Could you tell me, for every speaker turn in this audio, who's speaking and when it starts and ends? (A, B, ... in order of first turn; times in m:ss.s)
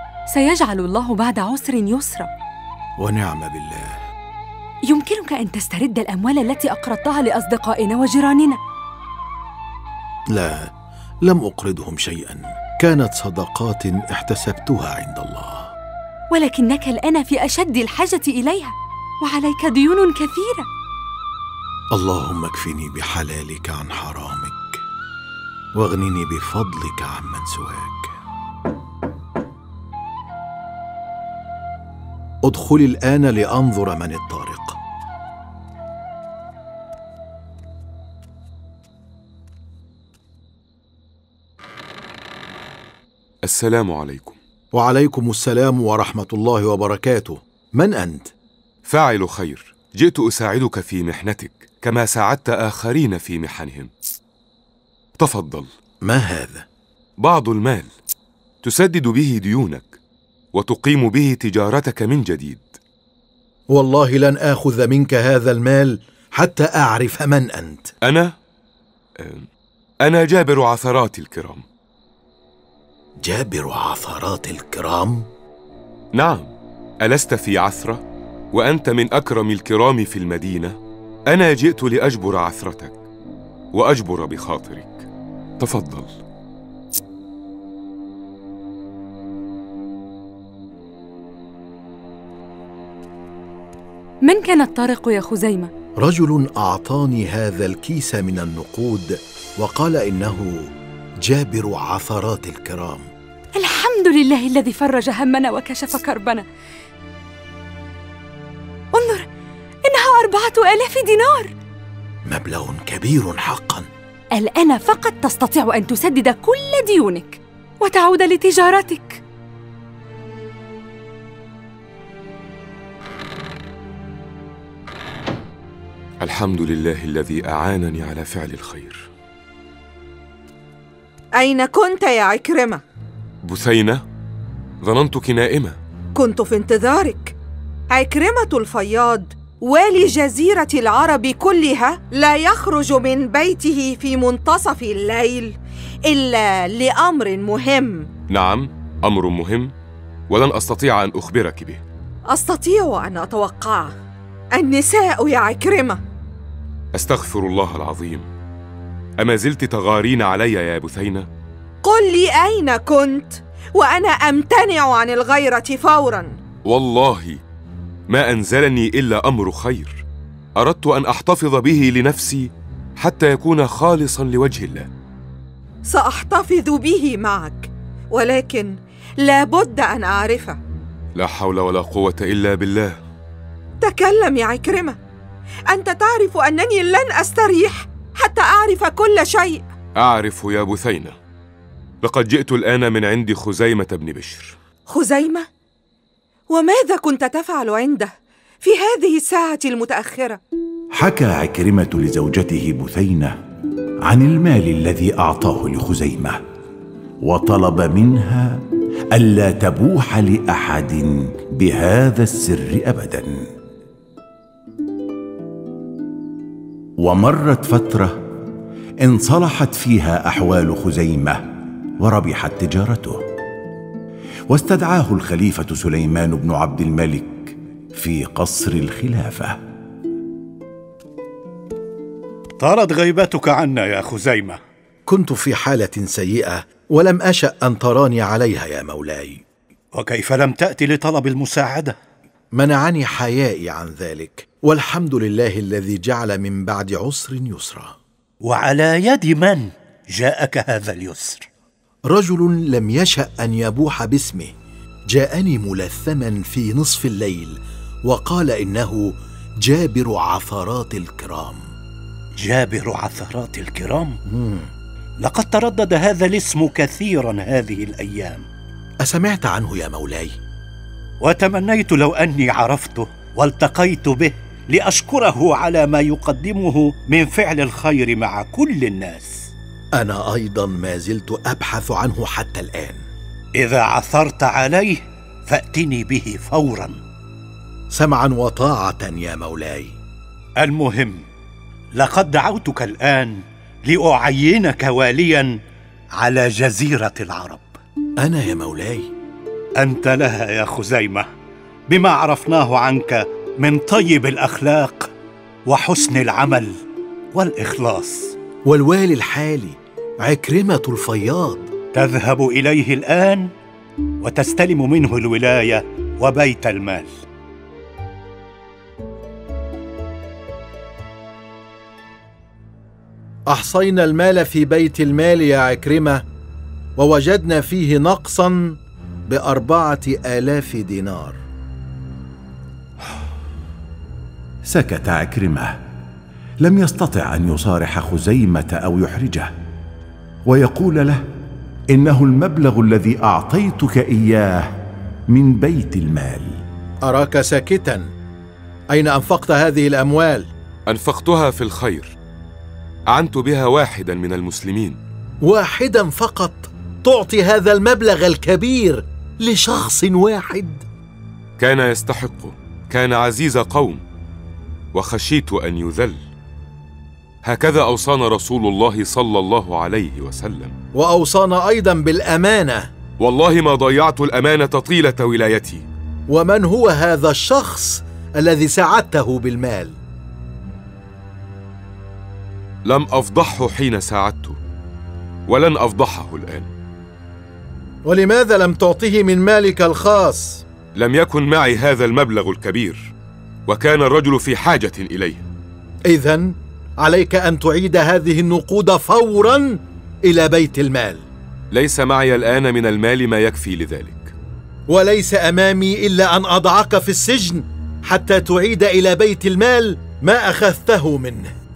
0:00.3-0:02.3 A
0:03.0-0:03.9 B
0:04.9-0:08.6 A
0:10.3-0:10.7 B
0:11.2-0:15.7 B
0:16.3-0:20.7 A
0:21.9-0:24.8 B
0:25.8-0:28.1 B
0:32.4-0:34.8 B
0:43.4-0:44.4 C
0:44.7-0:48.3 B
0:48.8-0:53.9 C
0:55.2-0:55.7 C
0:56.0-0:56.6 B
0:57.2-0:57.9 C
0:58.6-1:00.0 C
1:00.5-1:02.7 C
1:03.7-1:07.9 B
1:08.0-1:08.4 C
1:09.2-1:09.5 C
1:10.0-1:11.6 C
1:13.2-1:15.3 B
1:16.2-1:16.5 C
1:17.0-1:20.8 C
1:21.3-1:23.0 C
1:23.7-1:25.1 C
1:25.6-1:26.1 C
1:34.2-1:35.7 A
1:36.0-1:40.7 B
1:41.2-1:43.1 B
1:43.6-1:46.4 A
1:48.9-1:49.3 A
1:49.8-1:51.5 A
1:52.3-1:53.9 B
1:54.3-1:59.2 A
2:06.2-2:09.1 C
2:11.4-2:12.8 D
2:13.4-2:14.0 C
2:14.8-2:15.8 C
2:16.2-2:17.4 D
2:17.9-2:28.1 D
2:28.3-2:29.7 C
2:30.3-2:31.8 C
2:32.3-2:33.9 D
2:34.6-2:36.0 D
2:37.0-2:38.3 C
2:39.2-2:41.3 C
2:41.8-2:46.4 D
2:46.7-2:47.4 C
2:48.1-2:50.0 C
2:50.6-2:54.9 C
2:55.9-3:00.6 D
3:01.2-3:03.0 C
3:03.8-3:05.0 D
3:05.7-3:09.7 D
3:10.0-3:11.2 C
3:12.0-3:14.6 C
3:14.9-3:15.5 D
3:16.5-3:20.4 D
3:20.9-3:23.4 E
3:24.0-3:26.4 E
3:27.2-3:33.4 E
3:37.0-3:38.2 E
3:39.0-3:43.2 E
3:44.5-3:49.6 E
3:52.6-3:54.6 F
3:55.1-3:59.4 B
3:59.9-4:02.0 F
4:02.5-4:08.0 B
4:08.4-4:11.5 F
4:12.1-4:14.5 B
4:15.1-4:21.6 B
4:22.4-4:24.2 F
4:24.3-4:24.7 B
4:25.2-4:28.4 F
4:29.0-4:30.4 B
4:31.2-4:39.5 F
4:40.0-4:43.0 B
4:43.6-4:47.0 F
4:47.9-4:50.0 B
4:50.6-4:51.3 F
4:51.9-4:55.6 F
4:56.1-4:57.8 F
4:58.2-4:59.1 B
4:59.8-5:01.3 F
5:01.9-5:05.1 F
5:05.7-5:06.8 F
5:07.3-5:08.4 F
5:08.7-5:11.7 B
5:11.9-5:13.5 F
5:14.2-5:17.1 F
5:23.5-5:26.2 B
5:27.0-5:31.4 B
5:34.6-5:35.8 E
5:36.6-5:39.5 E
5:40.4-5:41.2 E
5:41.9-5:44.7 E
5:45.3-5:46.6 E
5:47.0-5:48.1 B
5:48.9-5:50.5 B
5:50.9-5:52.2 C
5:53.1-5:55.0 C
5:55.4-6:00.8 B
6:01.6-6:04.0 C
6:04.9-6:06.2 C
6:07.4-6:10.7 C
6:10.9-6:12.9 B
6:13.2-6:15.9 C
6:16.3-6:20.0 B
6:22.9-6:24.6 C
6:25.5-6:26.7 C
6:28.0-6:30.6 B
6:31.0-6:33.1 C
6:33.7-6:35.5 C
6:36.1-6:41.3 B
6:41.7-6:44.3 C
6:44.9-6:51.5 B